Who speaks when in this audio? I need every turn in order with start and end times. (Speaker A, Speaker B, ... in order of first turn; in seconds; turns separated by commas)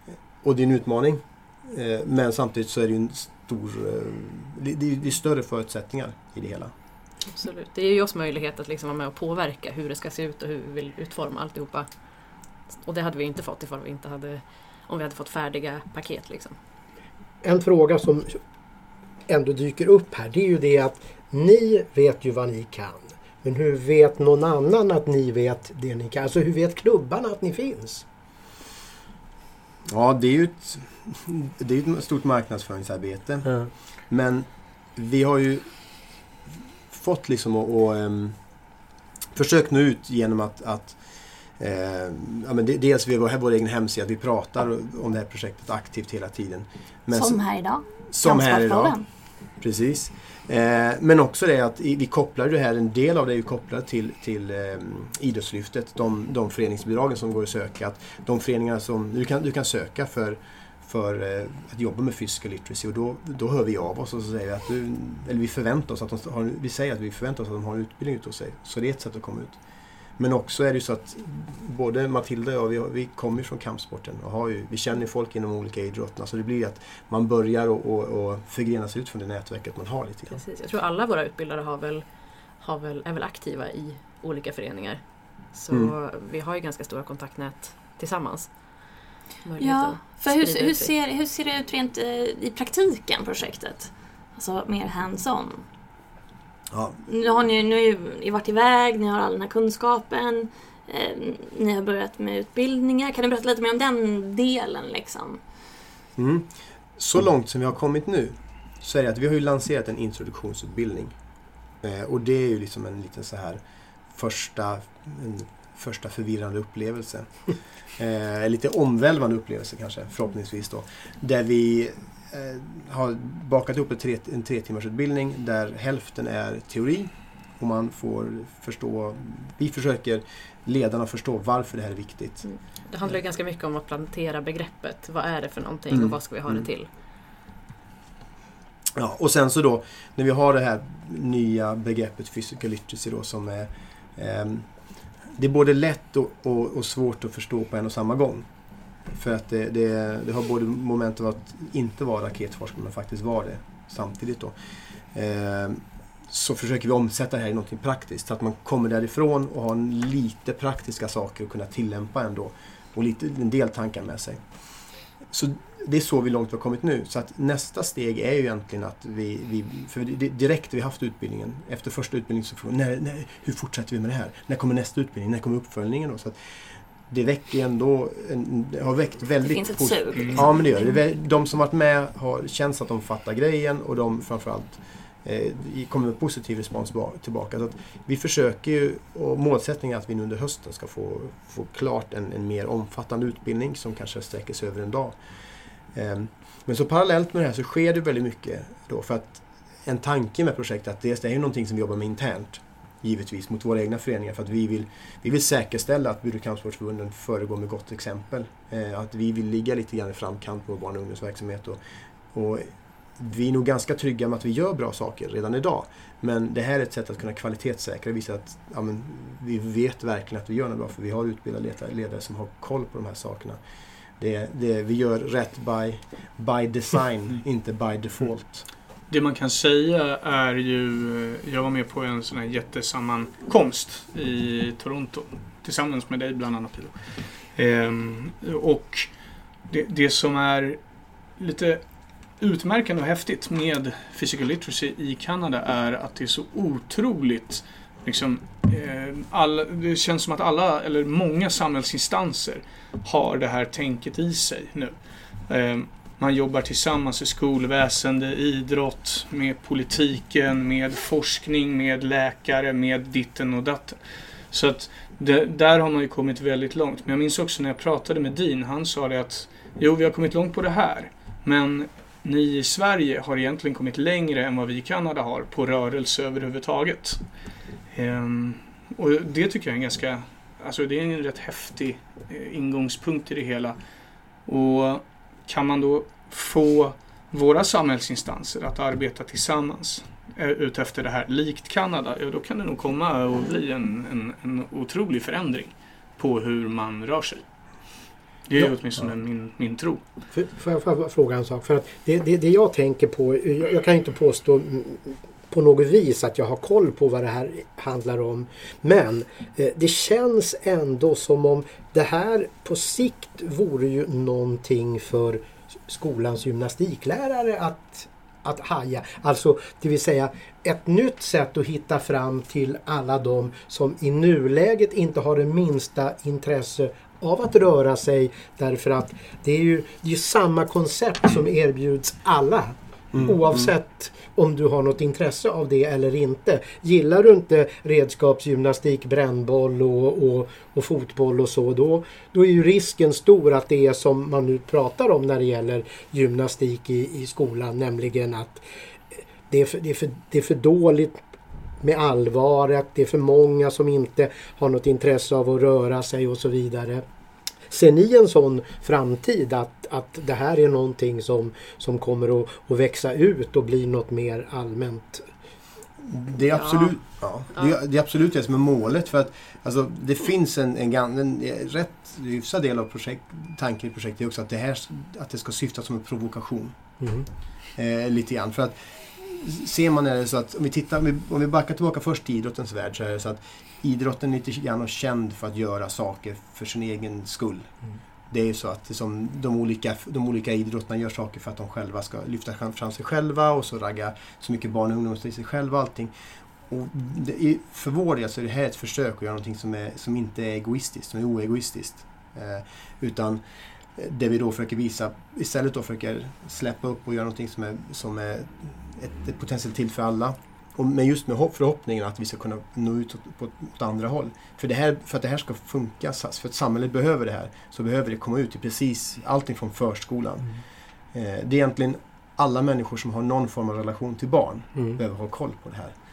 Speaker A: 0.4-6.7, Speaker B: 7.3-11.9, Speaker B: 12.8-16.6, Speaker C: 17.4-18.4, Speaker C: 19.3-28.0, Speaker A: 29.9-35.7, Speaker A: 36.9-38.4, Speaker A: 39.3-41.0, Speaker A: 41.6-47.4, Speaker D: 47.1-49.0, Speaker A: 48.1-49.0, Speaker A: 49.6-69.6, Speaker A: 70.2-80.4, Speaker B: 80.3-82.1, Speaker B: 82.6-90.9, Speaker D: 89.6-95.7, Speaker A: 96.7-97.0, Speaker D: 97.1-105.4, Speaker A: 106.2-111.2, Speaker A: 111.8-113.6, Speaker A: 114.1-117.3, Speaker A: 118.0-132.4, Speaker B: 132.4-136.9, Speaker A: 135.9-136.7, Speaker A: 138.9-144.7, Speaker A: 145.4-148.5, Speaker A: 149.1-154.5, Speaker A: 155.1-164.4, Speaker A: 165.3-176.3, Speaker A: 177.1-195.2, Speaker D: 179.4-180.9, Speaker A: 195.9-211.8, Speaker A: 212.3-223.6, Speaker A: 224.2-228.7, Speaker E: 229.1-239.1, Speaker E: 239.7-240.8, Speaker E: 241.4-241.8, Speaker E: 242.4-255.0, Speaker E: 255.5-264.0, Speaker E: 264.5-277.2, Speaker E: 277.9-283.8, Speaker E: 284.5-297.4, Speaker E: 298.5-300.0, Speaker C: 300.3-348.6, Speaker A: 333.1-333.7, Speaker C: 349.5-351.2, Speaker C: 351.8-357.0, Speaker C: 357.7-365.2, Speaker A: 366.0-376.8, Speaker B: 366.5-367.0, Speaker C: 377.0-377.3, Speaker A: 377.8-387.7, Speaker A: 388.3-396.1, Speaker A: 396.7-403.4, Speaker A: 404.0-420.6, Speaker A: 421.1-425.9